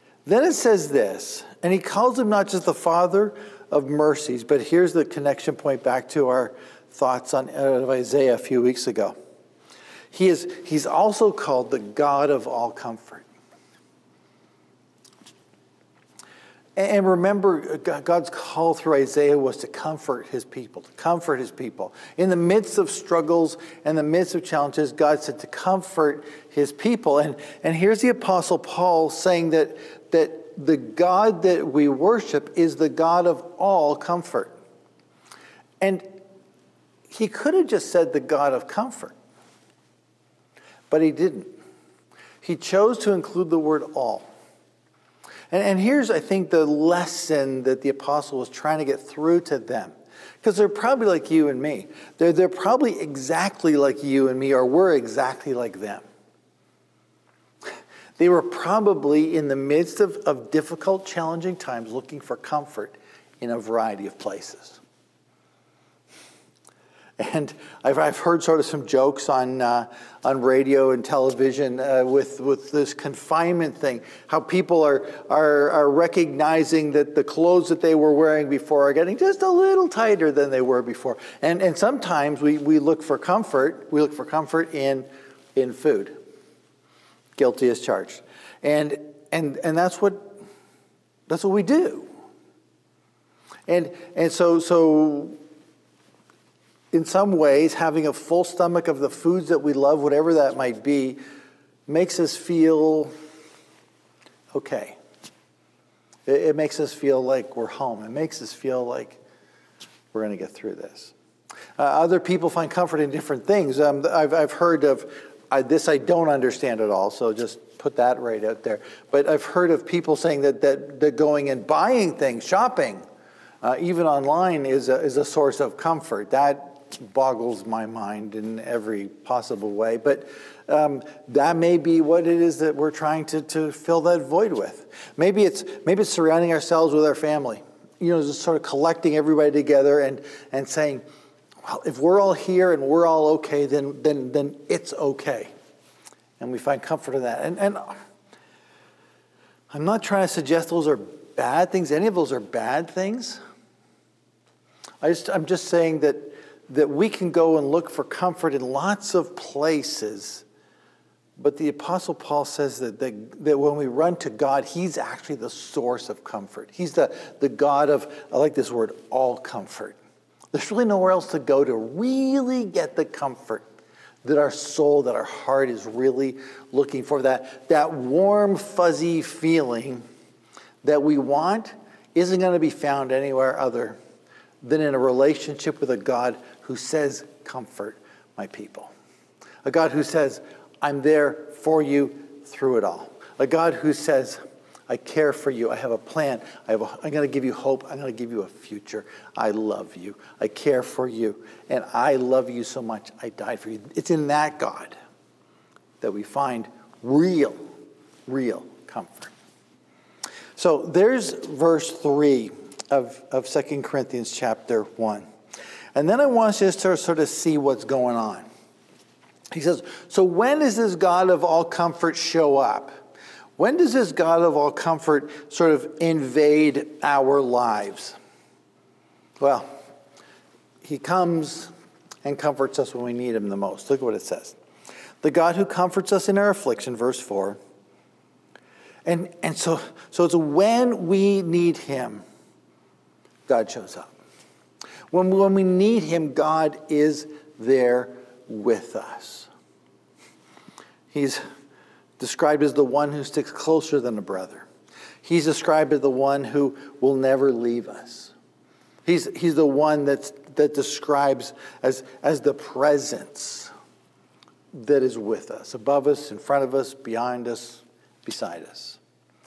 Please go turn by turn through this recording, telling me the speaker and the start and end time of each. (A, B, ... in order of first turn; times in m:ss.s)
0:00.3-0:09.2 A
0:10.1-0:13.2 A
0:16.8-0:34.6 A
0:35.8-0:36.2 A
0:37.1-0:39.2 A
0:40.9-0:41.5 A
0:42.4-0:44.3 A
0:45.5-0:56.0 A
0:58.2-1:04.8 A
1:07.2-1:26.2 A
1:27.4-1:30.4 A
1:31.3-1:32.1 A
1:33.7-1:35.4 A
1:36.9-1:41.2 A
1:41.9-1:43.1 A
1:44.5-1:45.0 A
1:46.3-1:49.2 A
1:50.1-1:51.1 A
1:51.8-2:03.0 A
2:03.6-2:21.0 A
2:21.6-2:25.5 A
2:26.4-2:28.0 A
2:29.7-2:33.4 A
2:35.0-2:40.4 A
2:41.4-2:50.0 A
2:50.5-2:53.6 A
2:54.2-3:00.0 A
3:00.8-3:04.0 A
3:04.6-3:08.9 A
3:09.6-3:25.0 A
3:26.0-3:27.6 A
3:28.3-3:29.3 A
3:30.6-3:35.3 A
3:36.0-3:38.5 A
3:39.5-3:42.9 A
3:43.6-3:48.2 A
3:49.4-3:49.7 A
3:50.8-3:51.7 A
3:52.2-3:54.6 A
3:55.2-3:57.6 A
3:59.1-4:02.2 A
4:03.5-4:04.2 A
4:05.1-4:09.5 A
4:11.1-4:11.4 A
4:12.2-4:14.7 A
4:15.2-4:18.3 A
4:19.1-4:23.7 A
4:24.7-4:29.0 A